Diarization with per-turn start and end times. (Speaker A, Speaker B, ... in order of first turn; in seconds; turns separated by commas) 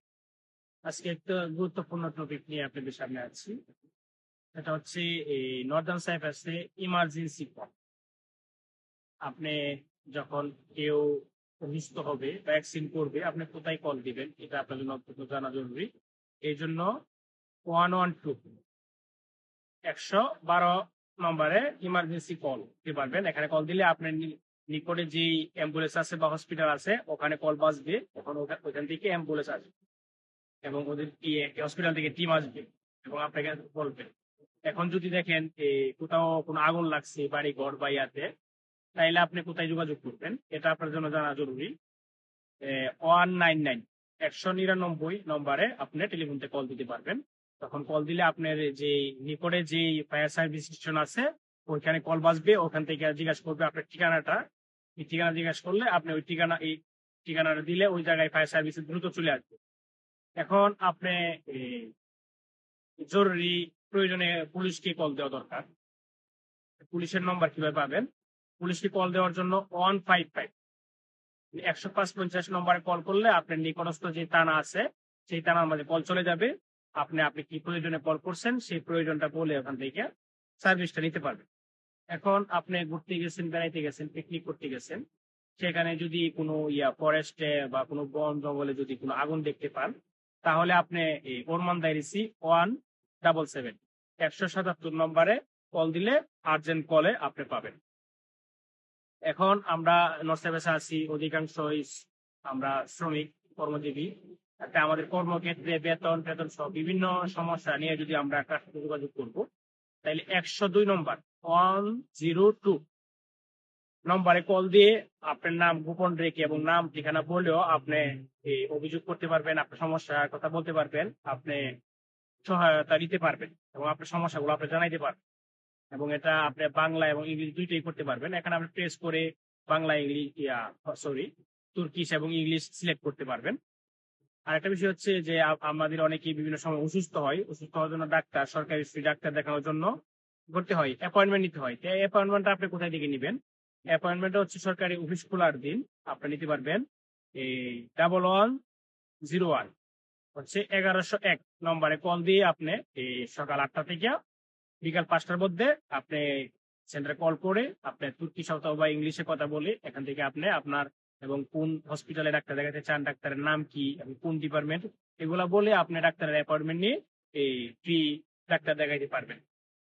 Speaker A: 0.8-3.5, Speaker A: 4.5-7.7, Speaker A: 9.2-9.6, Speaker A: 10.1-15.9, Speaker A: 16.4-16.9, Speaker A: 17.7-18.6, Speaker A: 19.9-29.7, Speaker A: 30.6-34.1, Speaker A: 34.7-38.3, Speaker A: 39.0-41.7, Speaker A: 42.6-54.4, Speaker A: 55.0-59.6, Speaker A: 60.4-61.9, Speaker A: 63.0-65.7, Speaker A: 66.8-68.1, Speaker A: 68.6-70.5, Speaker A: 71.6-80.1, Speaker A: 80.6-81.4, Speaker A: 82.1-85.0, Speaker A: 85.6-89.9, Speaker A: 90.4-97.8, Speaker A: 99.3-109.4, Speaker A: 110.0-112.8, Speaker A: 114.1-121.7, Speaker A: 122.4-125.2, Speaker A: 125.9-133.6, Speaker A: 134.5-139.9, Speaker A: 140.5-143.4, Speaker A: 143.9-146.8, Speaker A: 147.4-148.6, Speaker A: 149.3-149.7, Speaker A: 150.3-154.2, Speaker A: 154.8-169.4